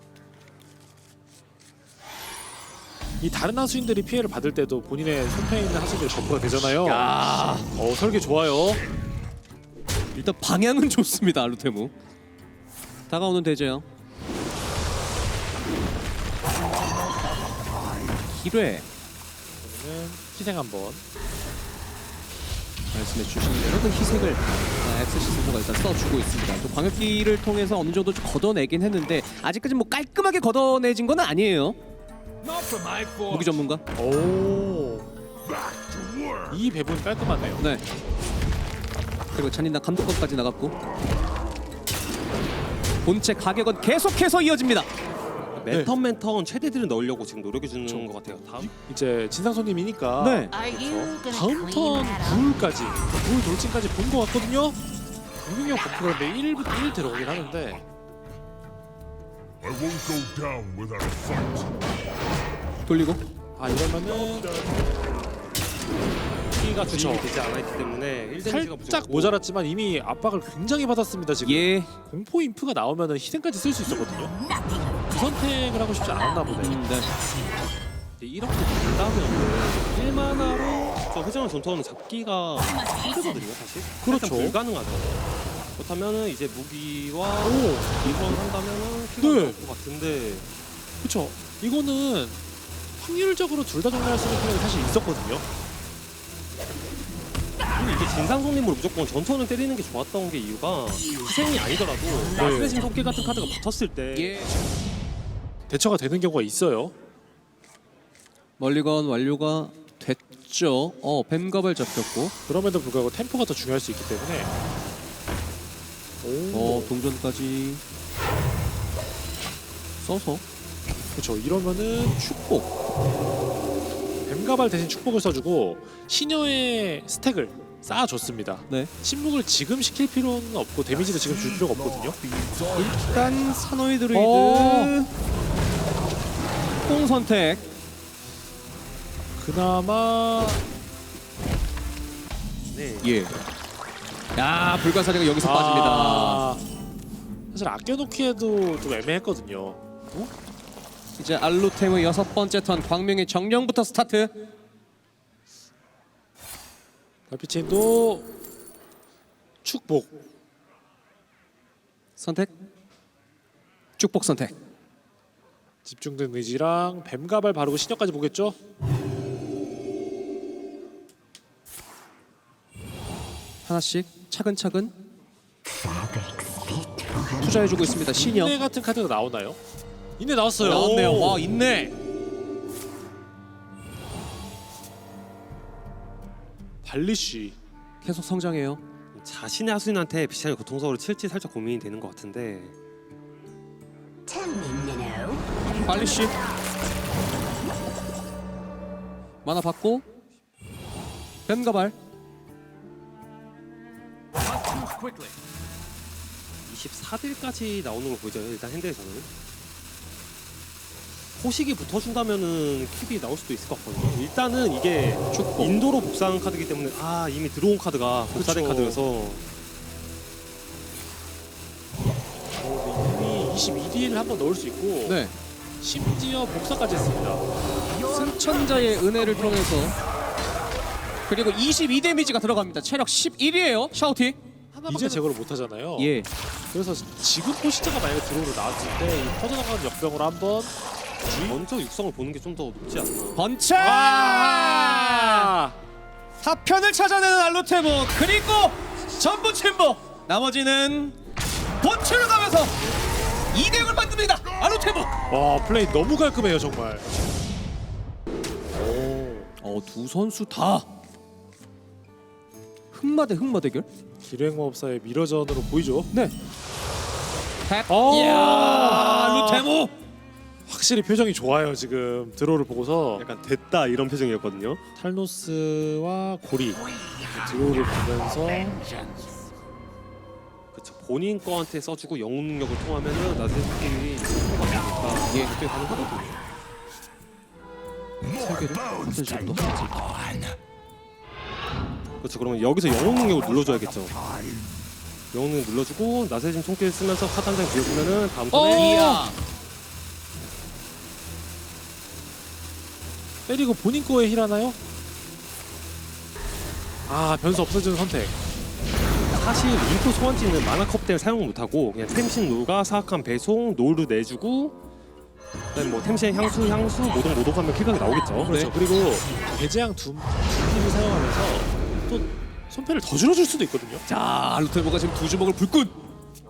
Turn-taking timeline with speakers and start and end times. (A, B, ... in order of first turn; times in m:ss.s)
0:03.2-0:07.1 A
0:06.6-0:07.7 B
0:07.7-0:08.8 A
0:10.1-0:11.9 B
0:13.1-0:13.8 B
0:18.3-0:18.8 B
0:19.6-0:21.0 A
0:22.9-0:31.8 B
0:33.0-0:33.8 B
0:34.0-0:35.1 A
0:36.5-0:37.6 A
0:37.6-0:37.8 B
0:39.3-0:40.7 B
0:43.0-0:44.9 B
0:45.6-0:48.7 C
0:47.8-0:54.8 A
0:50.2-0:50.5 B
0:55.4-0:57.8 A
0:59.6-1:01.7 D
1:02.8-1:03.2 B
1:03.6-1:04.6 A
1:06.6-1:07.3 A
1:06.8-1:09.4 C
1:08.4-1:14.3 A
1:11.4-1:11.9 B
1:15.1-1:16.8 A
1:16.6-1:17.1 B
1:18.2-1:25.1 C
1:24.0-1:24.6 A
1:25.8-1:30.5 C
1:27.4-1:27.9 A
1:29.2-1:29.6 A
1:31.0-1:32.4 A
1:33.0-1:35.4 A
1:37.7-1:44.4 C
1:42.4-1:42.8 A
1:44.1-1:44.5 B
1:45.7-1:46.9 A
1:48.6-1:52.3 B
1:52.4-1:54.5 A
1:56.2-1:56.9 A
1:56.5-1:57.8 B
2:00.0-2:00.4 B
2:01.1-2:02.6 A
2:04.3-2:12.2 A
2:12.7-2:15.1 B
2:14.1-2:14.9 A
2:16.8-2:17.6 B
2:19.3-2:20.6 A
2:22.7-2:23.2 C
2:23.0-2:23.3 B
2:24.3-2:26.4 B
2:25.4-2:26.6 A
2:27.5-2:29.8 A
2:31.2-2:34.3 B
2:37.3-2:38.3 A
2:39.6-2:40.2 A
2:42.2-2:42.5 B
2:44.0-2:44.5 B
2:45.8-2:48.6 A
2:53.6-2:54.9 B
2:57.3-2:58.6 B
2:58.0-2:59.6 A
3:00.2-3:01.5 A
3:00.6-3:01.9 B
3:06.8-3:07.6 A
3:08.0-3:08.8 B
3:09.1-3:12.7 C
3:14.4-3:15.3 D
3:15.8-3:16.4 B
3:19.4-3:20.0 B
3:21.5-3:21.9 B
3:26.6-3:29.3 C
3:31.4-3:39.4 C
3:35.3-3:35.7 B
3:38.4-3:39.0 A
3:42.5-3:45.2 A
3:45.0-3:45.3 B
3:45.8-3:47.4 A
3:48.1-3:49.9 B
3:51.3-3:54.4 B
3:54.7-3:56.1 A
3:54.9-3:55.2 B
3:56.0-3:56.3 B
3:56.7-4:00.7 A
4:01.2-4:01.6 A
4:01.3-4:03.4 C
4:03.3-4:05.5 B
4:03.8-4:05.8 A
4:06.4-4:11.2 B
4:11.8-4:12.7 B
4:13.5-4:15.1 B
4:15.3-4:17.0 A
4:18.8-4:19.5 A
4:19.6-4:20.8 B
4:22.9-4:23.9 B
4:24.2-4:26.1 A
4:27.7-4:29.9 B
4:27.9-4:29.7 A
4:30.7-4:33.2 A
4:33.2-4:34.8 C
4:35.0-4:38.8 A
4:40.7-4:46.4 C
4:48.4-4:50.0 B
4:52.2-4:54.2 C
4:55.3-4:58.9 C
4:58.5-4:59.3 A
4:58.7-4:59.3 B
5:03.5-5:04.8 A
5:07.1-5:08.3 A
5:09.3-5:14.8 C
5:15.7-5:18.5 C
5:18.4-5:24.0 A
5:18.4-5:18.7 B
5:24.1-5:25.9 B